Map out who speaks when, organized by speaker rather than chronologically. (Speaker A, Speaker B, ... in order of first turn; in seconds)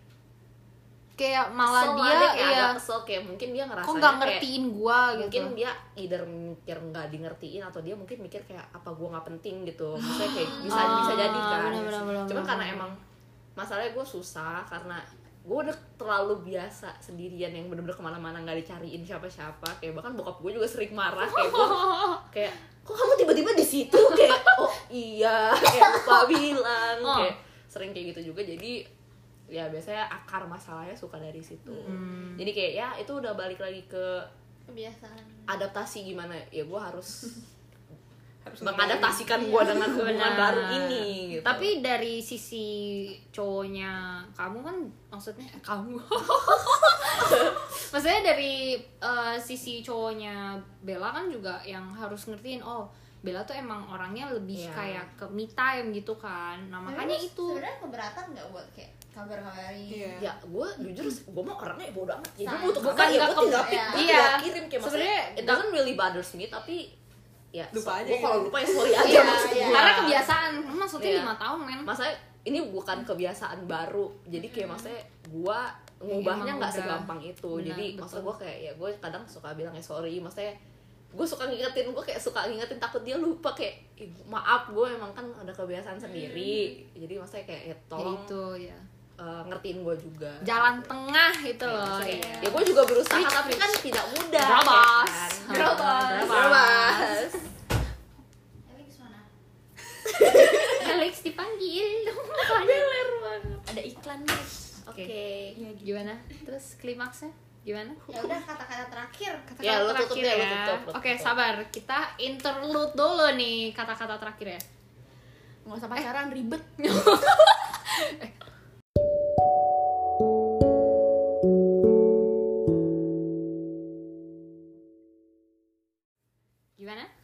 Speaker A: 1.2-2.8, 3.8-5.5, 10.1-12.9, 21.8-22.2, 27.0-27.3, 31.9-32.5, 39.6-57.6, 62.8-65.7, 68.9-71.9, 76.1-78.3, 88.0-88.8, 90.4-97.4, 100.6-103.6, 104.9-105.1, 105.8-108.0, 109.5-114.6, 116.8-118.3, 126.8-127.1
Speaker B: 1.6-4.5, 5.1-13.0, 13.6-28.8, 29.5-34.3, 35.5-37.3, 38.6-41.7, 54.5-55.1, 60.2-67.0, 67.5-70.3, 71.0-71.3, 71.8-80.6, 81.1-88.3, 89.2-90.9, 91.6-97.4, 100.2-100.5, 104.9-105.6, 109.6-111.3
Speaker C: 34.7-35.5, 39.4-39.8, 56.9-60.2, 62.4-64.3, 68.9-69.9, 98.7-99.3, 108.1-109.5
Speaker D: 38.4-39.4, 59.9-60.3, 67.7-68.8
Speaker E: 92.1-92.6, 95.5-96.6, 102.4-104.8, 105.5-106.1, 115.7-116.7